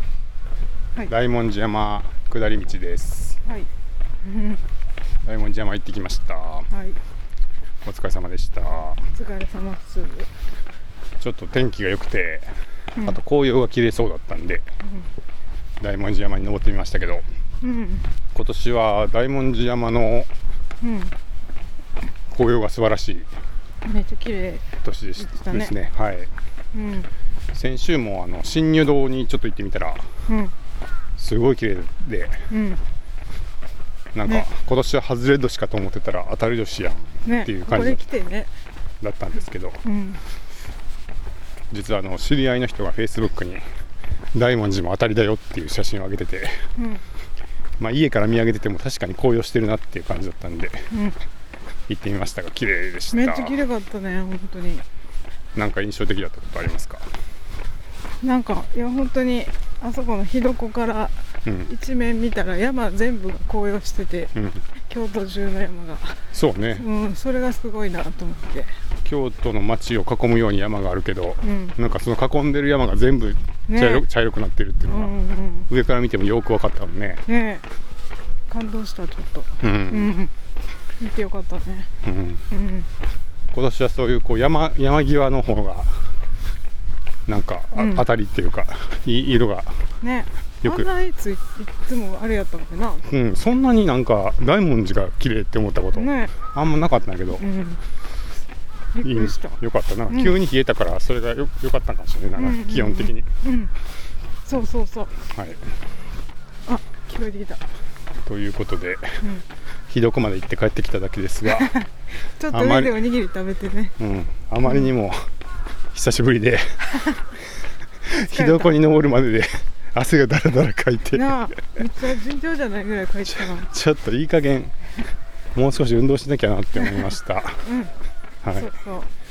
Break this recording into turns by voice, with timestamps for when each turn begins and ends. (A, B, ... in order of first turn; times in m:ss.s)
0:01.1-0:03.4 A
0:03.4-0:03.7 B
0:04.2-0:04.6 B
0:05.2-0:06.7 A
0:06.7-0:07.0 B
0:07.8-0:09.0 A
0:09.1-0:10.3 B
0:11.2-0:12.5 A
0:13.0-0:14.6 A
0:15.8-0:17.2 A
0:17.6-0:18.1 B
0:18.3-0:20.3 A
0:20.8-0:21.1 B
0:22.3-0:23.3 A
0:23.8-0:25.7 B
0:24.8-0:26.3 A
0:26.7-0:27.1 B
0:27.5-0:30.1 A
0:30.3-0:30.5 B
0:31.2-0:32.4 A
0:32.5-0:32.8 B
0:34.1-0:38.1 A
0:37.2-0:38.5 B
0:39.0-0:39.8 A
0:39.8-0:40.2 B
0:41.7-0:43.6 A
0:44.3-0:46.6 A
0:46.8-0:47.0 B
0:47.8-0:50.9 A
0:50.9-0:51.2 B
0:51.9-0:53.6 A
0:53.1-0:54.8 B
0:55.6-0:57.1 A
0:58.2-1:08.7 B
1:01.4-1:01.7 A
1:04.4-1:04.7 A
1:06.3-1:06.8 A
1:09.0-1:15.2 A
1:11.4-1:11.8 B
1:13.7-1:14.1 B
1:14.9-1:15.7 B
1:15.7-1:17.2 A
1:17.3-1:17.6 B
1:18.5-1:20.3 B
1:19.6-1:20.2 A
1:21.0-1:21.9 B
1:22.0-1:22.4 A
1:22.5-1:22.9 B
1:23.5-1:26.0 A
1:27.3-1:29.8 A
1:27.7-1:28.1 B
1:30.0-1:33.1 B
1:30.6-1:30.9 A
1:33.0-1:37.4 A
1:35.9-1:36.4 B
1:37.4-1:37.8 B
1:39.0-1:39.6 B
1:39.0-1:43.3 A
1:40.1-1:40.4 B
1:42.4-1:43.7 B
1:44.4-1:45.2 B
1:45.3-1:45.6 A
1:46.7-1:47.6 B
1:48.2-1:49.2 A
1:49.9-1:51.7 A
1:51.6-1:51.8 B
1:52.4-1:53.9 B
1:52.5-1:53.1 A
1:54.0-1:55.3 A
1:55.9-1:57.2 A
1:58.0-2:01.6 A
1:58.2-1:58.9 B
2:01.1-2:03.7 B
2:03.2-2:04.7 A
2:05.6-2:07.6 A
2:07.6-2:07.9 B
2:08.4-2:08.7 A
2:08.5-2:09.1 B